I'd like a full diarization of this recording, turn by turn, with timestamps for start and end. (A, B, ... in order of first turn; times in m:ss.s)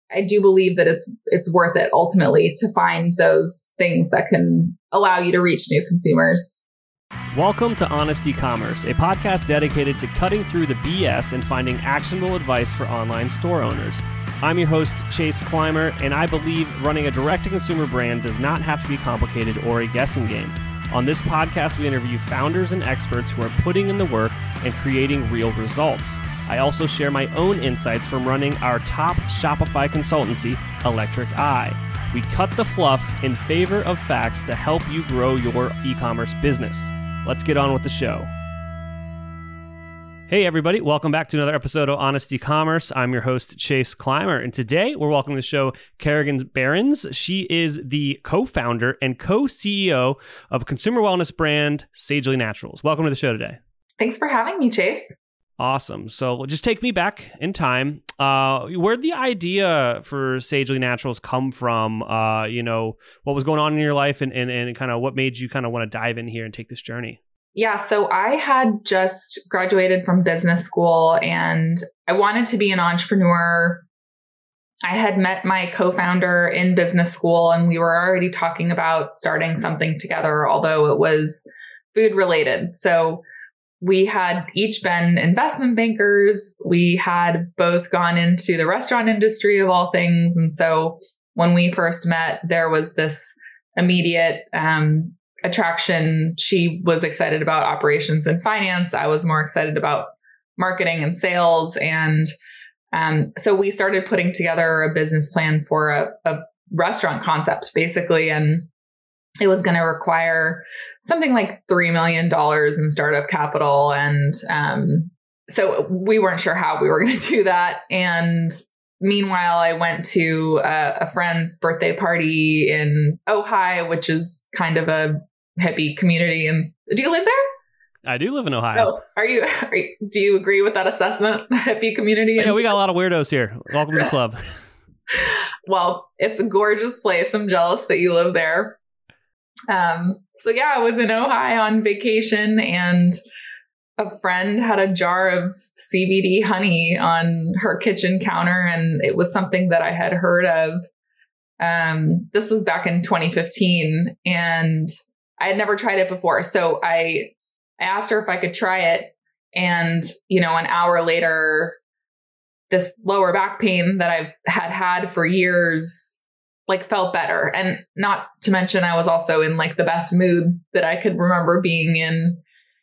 0:00.1-0:06.6 A
0:07.3-0:38.3 B
0:40.3-0:53.6 B
0:54.0-0:55.1 A
0:55.6-1:07.2 B
1:07.5-1:13.8 A
1:14.8-1:23.2 A
1:23.8-1:42.3 A
1:42.9-1:48.7 A
1:49.4-2:07.4 A
2:08.0-2:09.0 B
2:08.7-2:12.8 A
2:12.4-2:14.6 B
2:15.1-2:18.8 A
2:19.7-2:23.2 A
2:24.0-2:30.8 A
2:31.6-2:41.8 A
2:42.7-2:52.4 A